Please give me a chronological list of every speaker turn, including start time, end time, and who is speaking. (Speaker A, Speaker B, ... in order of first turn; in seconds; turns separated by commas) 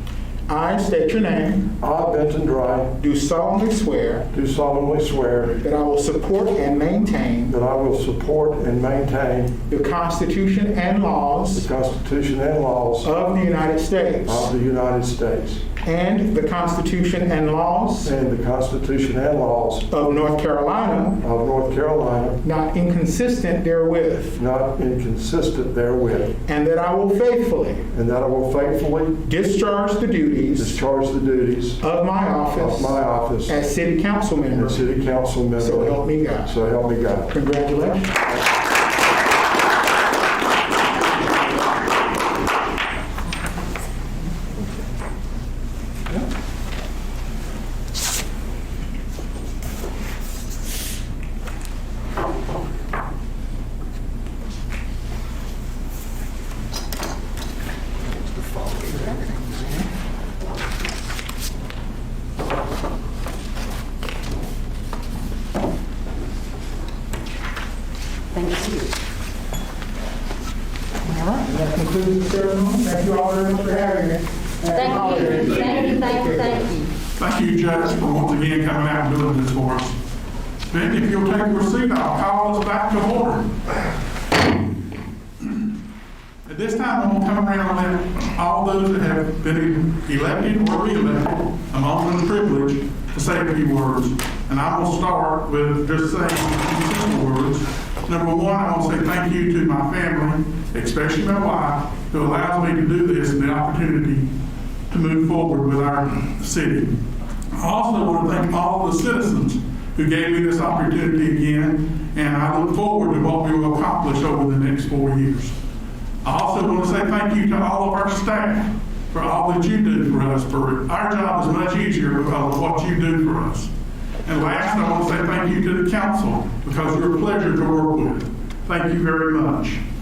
Speaker A: 0.5-1.7, Speaker B: 1.8-2.9, Speaker A: 3.0-4.3, Speaker B: 4.3-5.6, Speaker A: 5.6-7.5, Speaker B: 7.5-9.5, Speaker A: 9.7-11.7, Speaker B: 11.5-13.1, Speaker A: 13.0-14.5, Speaker B: 14.2-15.6, Speaker A: 15.8-18.1, Speaker B: 18.0-19.8, Speaker A: 19.9-21.2, Speaker B: 21.2-22.4, Speaker A: 22.4-24.4, Speaker B: 24.3-26.3, Speaker A: 26.4-27.9, Speaker B: 27.9-29.1, Speaker A: 29.2-30.8, Speaker B: 30.6-31.8, Speaker A: 31.8-34.8, Speaker B: 32.5-33.6, Speaker B: 34.5-37.3, Speaker A: 35.5-36.5, Speaker A: 37.3-38.2, Speaker C: 68.3-68.9, Speaker A: 71.0-76.5, Speaker C: 74.7-76.9, Speaker D: 77.2-80.0, Speaker D: 80.7-83.5, Speaker D: 86.5-104.3, Speaker D: 104.9-107.0, Speaker D: 107.5-115.5, Speaker D: 116.2-123.7, Speaker D: 124.2-129.8